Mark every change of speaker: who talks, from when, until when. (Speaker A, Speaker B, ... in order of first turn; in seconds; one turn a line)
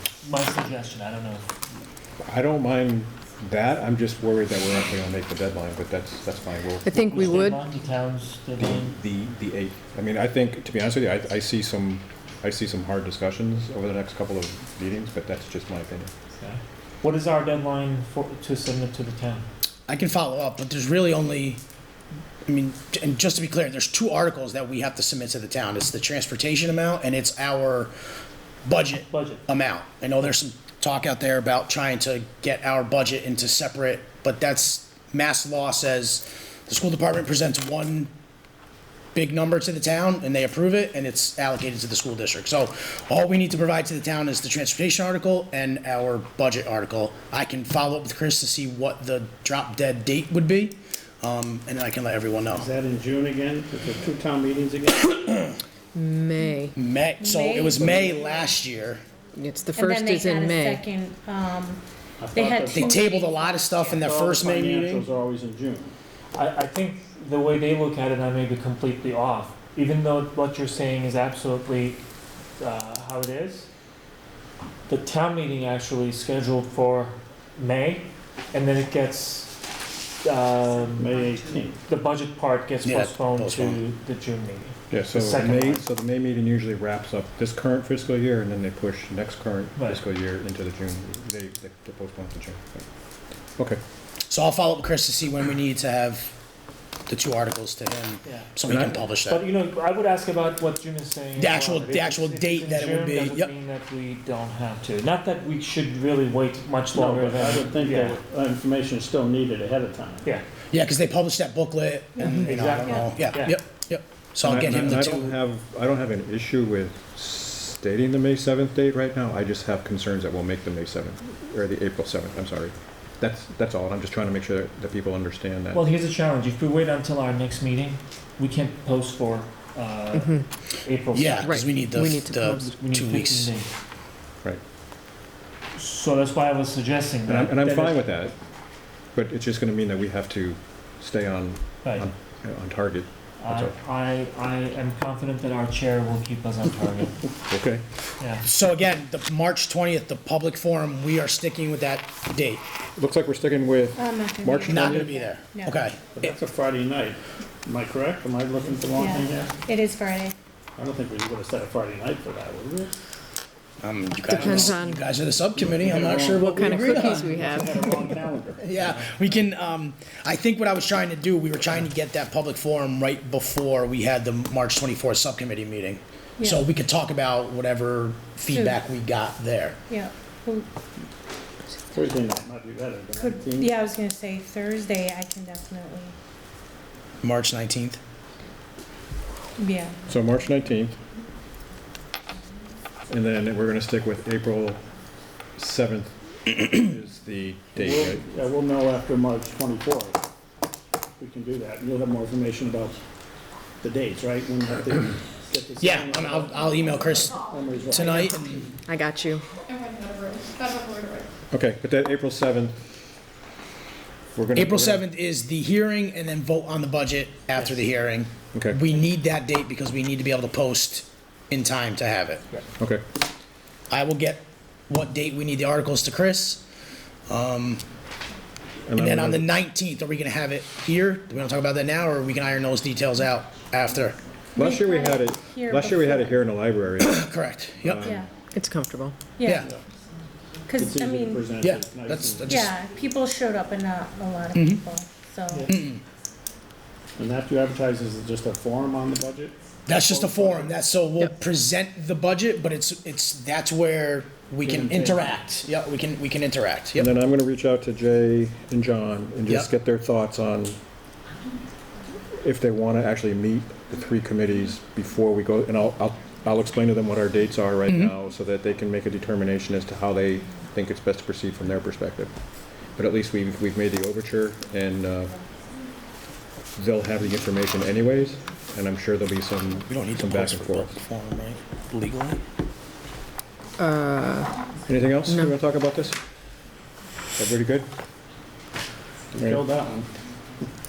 Speaker A: 0.2-1.5
Speaker B: 2.2-7.5
Speaker C: 6.8-7.6
Speaker A: 6.9-9.0
Speaker B: 8.6-16.1
Speaker A: 16.3-19.5
Speaker D: 19.9-21.6
Speaker D: 22.5-27.9
Speaker D: 28.6-38.1
Speaker A: 29.1-29.4
Speaker D: 39.1-52.7
Speaker E: 52.5-55.5
Speaker C: 56.0-56.8
Speaker D: 56.8-59.0
Speaker F: 57.2-58.5
Speaker C: 59.4-60.8
Speaker F: 59.8-61.8
Speaker E: 62.2-63.0
Speaker F: 62.3-63.9
Speaker D: 62.7-65.0
Speaker E: 63.9-65.9
Speaker A: 66.3-72.0
Speaker A: 72.6-73.7
Speaker A: 74.9-79.5
Speaker A: 80.2-81.2
Speaker E: 81.0-81.8
Speaker A: 81.9-85.8
Speaker D: 82.8-83.8
Speaker B: 84.9-92.9
Speaker A: 89.8-90.0
Speaker D: 94.3-96.3
Speaker D: 97.1-99.4
Speaker A: 98.2-108.2
Speaker D: 101.4-103.5
Speaker E: 106.9-110.3
Speaker D: 110.7-115.3
Speaker A: 112.2-113.5
Speaker F: 112.2-113.1
Speaker B: 114.4-125.8
Speaker A: 125.7-131.5
Speaker C: 130.1-130.4
Speaker D: 131.1-133.5
Speaker C: 131.4-132.7
Speaker A: 132.6-133.7
Speaker A: 135.8-138.0
Speaker B: 137.3-138.3
Speaker B: 139.1-143.7
Speaker A: 143.4-147.2
Speaker B: 147.5-147.8
Speaker A: 148.2-148.4
Speaker D: 148.4-152.6
Speaker B: 153.0-155.1
Speaker F: 154.0-155.9
Speaker D: 154.7-156.3
Speaker E: 156.1-159.6
Speaker F: 158.9-160.3
Speaker E: 160.8-162.9
Speaker D: 163.8-167.3
Speaker C: 164.3-165.1
Speaker E: 164.3-164.8
Speaker E: 165.6-169.1
Speaker C: 166.3-168.2
Speaker D: 168.6-179.8
Speaker F: 176.4-176.7
Speaker F: 178.5-178.8
Speaker F: 179.9-180.7
Speaker E: 181.9-183.8
Speaker F: 183.2-186.2
Speaker D: 187.2-188.0
Speaker F: 189.6-190.0
Speaker B: 190.1-191.0
Speaker B: 193.1-194.8
Speaker B: 195.6-198.2
Speaker E: 197.8-200.2
Speaker E: 201.2-203.0
Speaker E: 203.8-208.6
Speaker D: 205.8-208.7
Speaker C: 208.9-209.4
Speaker B: 211.5-212.8
Speaker B: 214.4-215.0
Speaker D: 214.5-222.4
Speaker B: 218.5-218.8
Speaker D: 223.9-226.7
Speaker D: 227.3-227.8
Speaker B: 228.9-229.5
Speaker D: 229.0-234.2
Speaker F: 234.6-236.4
Speaker B: 234.6-237.2
Speaker D: 237.0-238.1
Speaker B: 237.8-238.3
Speaker F: 238.0-238.3
Speaker C: 238.5-239.2
Speaker F: 239.4-239.7
Speaker E: 239.6-239.8
Speaker F: 240.7-241.5
Speaker E: 240.8-242.7
Speaker D: 241.6-242.7
Speaker F: 242.5-245.7
Speaker D: 244.5-244.8
Speaker A: 245.5-245.8
Speaker D: 245.7-246.0
Speaker E: 247.2-250.7
Speaker D: 249.9-257.1
Speaker E: 254.6-255.4
Speaker B: 257.0-260.8
Speaker B: 262.4-272.3
Speaker D: 267.9-268.1
Speaker B: 273.0-275.4
Speaker B: 276.8-280.9
Speaker D: 279.9-282.4
Speaker C: 283.8-284.5
Speaker B: 284.9-286.2
Speaker C: 285.2-285.6
Speaker B: 287.4-287.9
Speaker E: 289.3-290.1
Speaker B: 289.4-289.6